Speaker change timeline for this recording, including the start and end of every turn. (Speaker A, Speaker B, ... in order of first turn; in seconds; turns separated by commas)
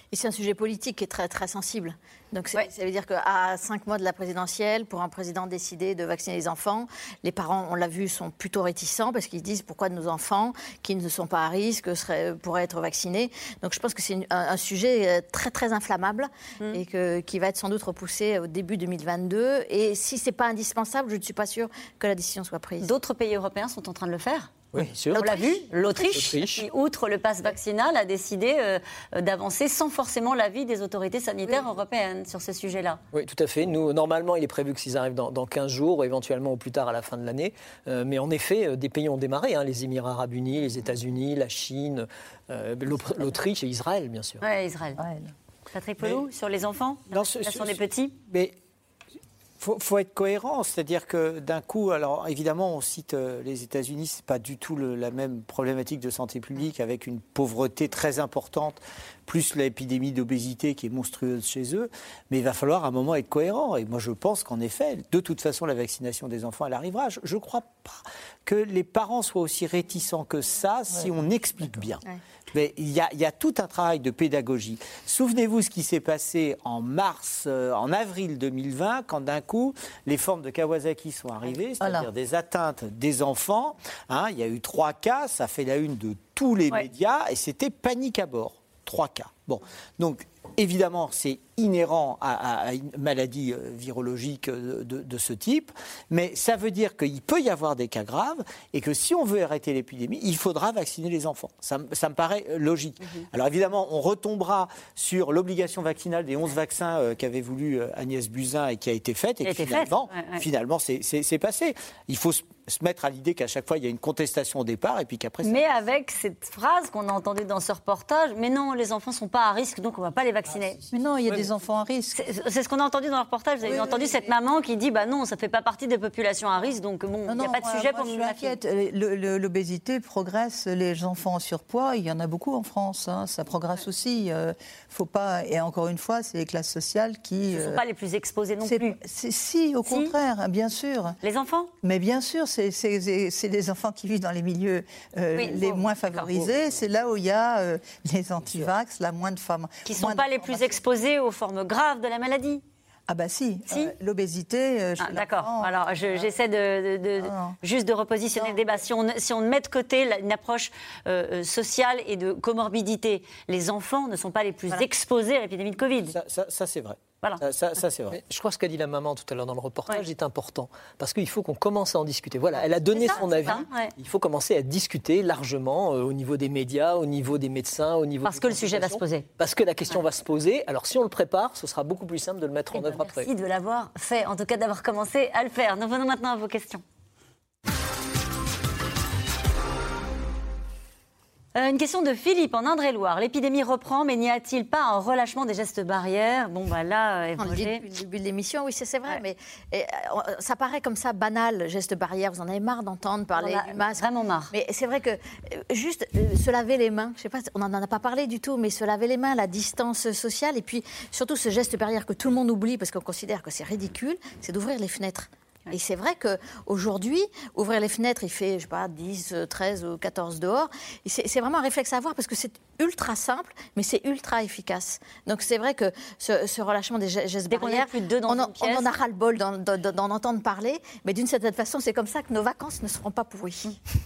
Speaker A: 0.1-22.9, Speaker B: 22.8-24.5, Speaker C: 24.7-25.4, Speaker B: 25.1-33.0, Speaker A: 25.2-25.6, Speaker C: 26.1-26.7, Speaker C: 33.1-44.4, Speaker B: 44.4-45.0, Speaker D: 45.0-45.3, Speaker B: 45.7-48.1, Speaker E: 47.1-48.5, Speaker E: 49.6-115.6, Speaker D: 70.9-71.9, Speaker D: 81.8-82.1, Speaker B: 109.4-110.4, Speaker B: 115.4-120.8, Speaker D: 120.9-122.2, Speaker B: 122.1-128.6, Speaker D: 123.6-124.2, Speaker D: 127.3-137.8, Speaker B: 137.5-138.9, Speaker D: 138.6-141.2, Speaker B: 139.9-140.1, Speaker B: 141.2-141.7, Speaker D: 141.8-150.8, Speaker B: 145.3-146.3, Speaker B: 149.8-152.6, Speaker D: 153.1-155.7, Speaker B: 155.0-166.2, Speaker D: 157.2-157.6, Speaker A: 158.3-158.6, Speaker E: 166.1-168.2, Speaker C: 168.1-183.3, Speaker A: 172.9-173.6, Speaker B: 173.1-173.9, Speaker B: 178.2-179.3, Speaker B: 182.7-186.8, Speaker B: 191.6-197.8, Speaker A: 197.4-233.7, Speaker B: 203.3-204.5, Speaker B: 227.5-228.9